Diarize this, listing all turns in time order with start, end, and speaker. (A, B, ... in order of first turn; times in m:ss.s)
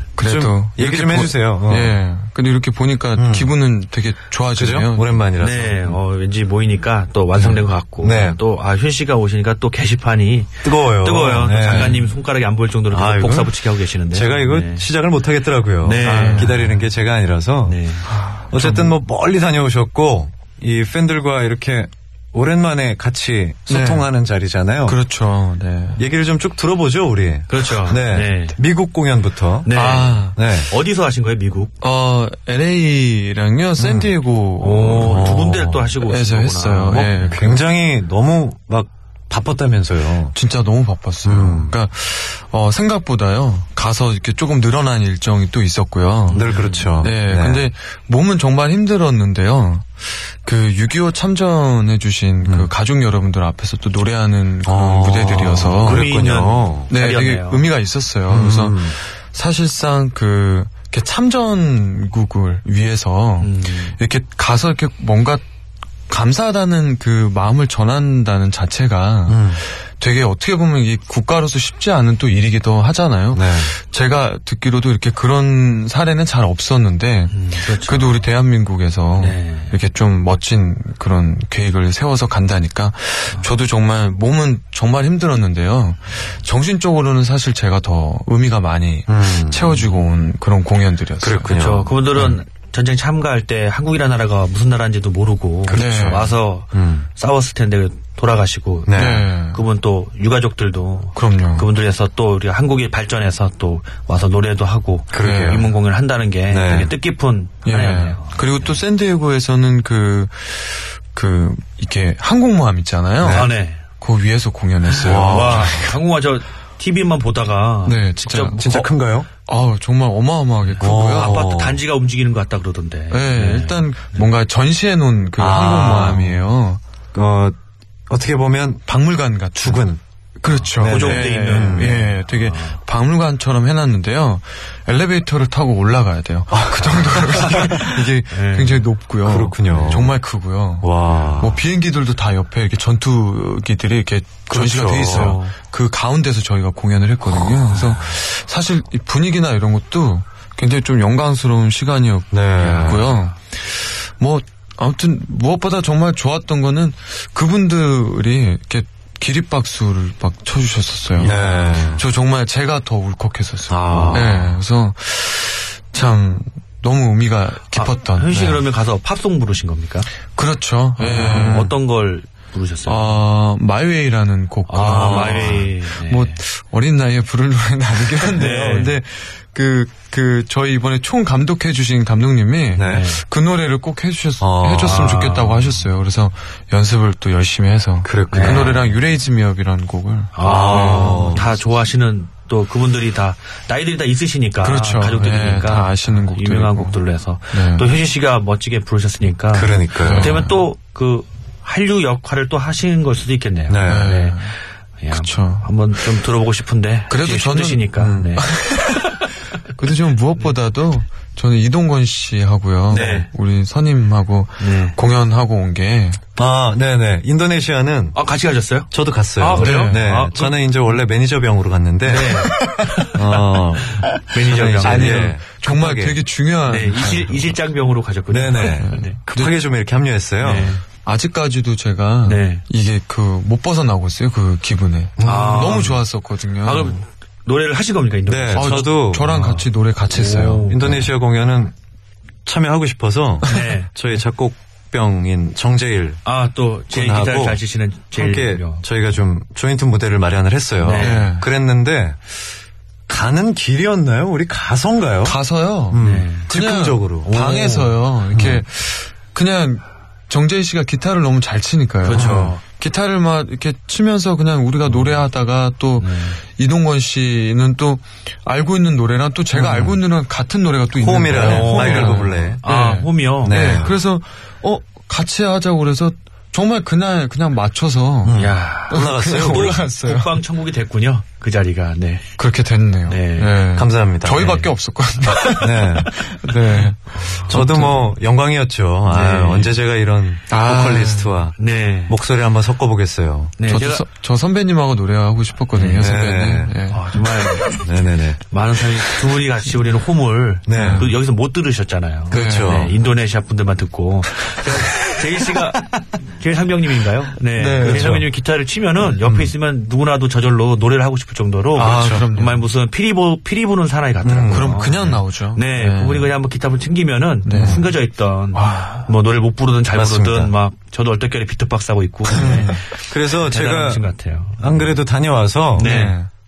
0:00.2-0:05.2 A
0:00.2-0:02.0 B
0:03.2-0:03.5 B
0:04.6-0:06.0 B
0:05.4-0:14.8 C
0:07.4-0:08.4 B
0:10.6-0:12.1 B
0:12.9-0:17.8 B
0:15.8-0:16.7 C
0:16.0-0:16.7 A
0:17.6-0:18.1 C
0:18.1-0:19.0 A
0:18.5-0:25.0 B
0:23.7-0:24.1 A
0:24.8-0:26.0 A
0:26.0-0:29.7 B
0:27.5-0:28.6 C
0:29.6-0:31.7 C
0:29.7-0:30.4 A
0:30.3-0:30.7 B
0:31.8-0:37.6 A
0:33.8-0:34.1 B
0:34.6-0:37.2 C
0:35.0-0:35.8 B
0:37.1-0:40.3 B
0:40.3-0:56.1 A
0:41.2-0:41.7 B
0:46.3-0:46.9 C
0:46.3-0:47.6 B
0:54.6-0:56.9 B
0:55.8-0:57.7 C
0:56.9-1:05.4 A
0:58.3-0:59.0 B
1:03.4-1:04.0 C
1:06.1-1:31.5 A
1:09.3-1:09.6 B
1:13.3-1:13.7 B
1:17.3-1:18.2 C
1:19.2-1:19.7 C
1:29.1-1:29.8 B
1:31.2-1:31.9 B
1:31.5-1:48.6 C
1:35.6-1:37.1 B
1:35.7-1:36.3 A
1:38.9-1:39.2 B
1:38.9-1:39.6 A
1:41.2-1:41.7 A
1:45.1-1:45.7 B
1:45.2-1:45.6 A
1:46.5-1:46.9 B
1:47.6-1:56.0 A
1:53.2-1:53.5 B
1:53.2-1:53.8 C
1:54.9-1:58.9 C
1:55.0-1:55.8 B
1:57.8-1:58.9 A
1:58.6-1:59.3 B
1:59.4-2:01.4 A
2:00.8-2:04.2 C
2:00.8-2:01.8 B
2:03.1-2:06.8 A
2:05.4-2:06.4 B
2:07.1-2:07.6 B
2:08.1-2:08.8 B
2:08.9-2:09.8 A
2:09.6-2:10.0 B
2:10.4-2:41.4 A
2:10.8-2:12.0 B
2:10.8-2:12.8 C
2:16.5-2:18.0 B
2:18.3-2:18.8 C
2:19.2-2:20.1 B
2:19.7-2:20.0 C
2:20.8-2:21.6 B
2:24.5-2:25.4 B
2:25.1-2:25.5 C
2:32.3-2:33.1 B
2:32.6-2:33.3 C
2:41.2-2:41.6 C
2:41.2-2:42.0 B
2:41.9-2:48.6 A
2:43.7-2:44.6 B
2:43.9-2:44.2 C
2:47.7-2:50.1 C
2:50.3-2:51.7 A
2:51.0-2:53.1 C
2:51.1-2:51.6 B
2:52.8-3:11.6 A
2:54.7-2:56.4 C
2:54.8-2:55.7 B
2:58.3-2:58.9 C
3:02.8-3:03.1 B
3:02.8-3:03.2 C
3:04.4-3:05.2 B
3:04.8-3:05.7 C
3:08.0-3:08.9 B
3:08.3-3:08.8 C
3:10.3-3:29.1 C
3:10.4-3:11.4 B
3:14.6-3:17.0 A
3:17.5-3:17.9 A
3:19.5-3:20.5 B
3:20.0-3:20.5 A
3:23.7-3:24.1 B
3:23.8-3:24.5 A
3:25.1-3:25.7 A
3:27.1-3:29.2 A
3:28.0-3:28.4 B
3:29.8-3:36.2 A
3:32.9-3:33.3 C
3:32.9-3:33.2 B
3:34.6-3:35.0 C
3:36.4-3:38.2 B
3:38.1-3:40.6 C
3:38.9-3:46.2 B
3:39.6-3:40.1 A
3:42.0-3:43.4 C
3:42.6-3:43.0 A
3:44.0-3:45.3 C
3:44.8-3:47.6 A
3:46.7-3:49.2 C
3:48.3-3:50.7 B
3:48.6-3:49.5 A
3:50.4-3:50.8 C
3:51.0-3:57.0 A
3:52.2-3:52.6 C
3:55.2-3:55.9 B
3:55.2-3:56.0 C
3:56.6-3:59.4 C
3:58.3-3:59.6 B
3:58.5-4:01.1 A
4:00.1-4:01.0 C
4:00.7-4:01.7 B
4:02.4-4:06.2 B
4:03.4-4:03.9 C
4:06.2-4:08.8 C
4:06.9-4:07.6 B
4:08.1-4:12.3 B
4:10.8-4:11.3 C
4:10.9-4:11.4 A
4:13.1-4:15.4 B
4:15.2-4:40.4 A
4:15.9-4:18.6 B
4:16.0-4:16.5 C
4:17.2-4:17.9 C
4:22.0-4:22.6 C
4:22.1-4:22.5 B
4:26.0-4:26.4 C
4:29.5-4:30.0 B
4:31.0-4:32.6 B
4:31.3-4:33.8 C
4:33.4-4:34.0 B
4:38.2-4:39.8 B
4:38.3-4:42.2 C
4:42.4-4:48.1 A
4:43.1-4:43.6 C
4:43.7-4:44.6 B
4:45.3-4:45.6 C
4:45.6-4:46.1 B
4:47.2-4:47.5 C
4:47.5-4:51.6 B
4:49.1-4:49.7 C
4:50.5-4:51.4 A
4:51.6-4:52.2 C
4:52.1-4:53.6 B
4:53.6-4:54.0 C
4:53.6-4:57.2 A
4:55.7-4:56.1 C
4:55.9-4:56.7 B
4:56.9-5:24.8 C
4:57.6-4:58.4 B
5:00.7-5:01.1 B
5:00.7-5:01.1 A
5:02.3-5:02.9 B
5:02.3-5:02.9 A
5:07.6-5:08.2 A
5:07.8-5:08.3 B
5:11.8-5:12.6 A
5:11.8-5:12.3 B
5:14.2-5:15.1 B
5:14.5-5:16.3 A
5:17.4-5:17.9 A
5:17.5-5:17.9 B
5:18.5-5:19.1 A
5:19.9-5:20.5 B
5:22.3-5:22.7 A
5:22.3-5:24.1 B
5:24.6-5:26.1 B
5:25.7-5:26.2 C
5:25.8-5:26.3 A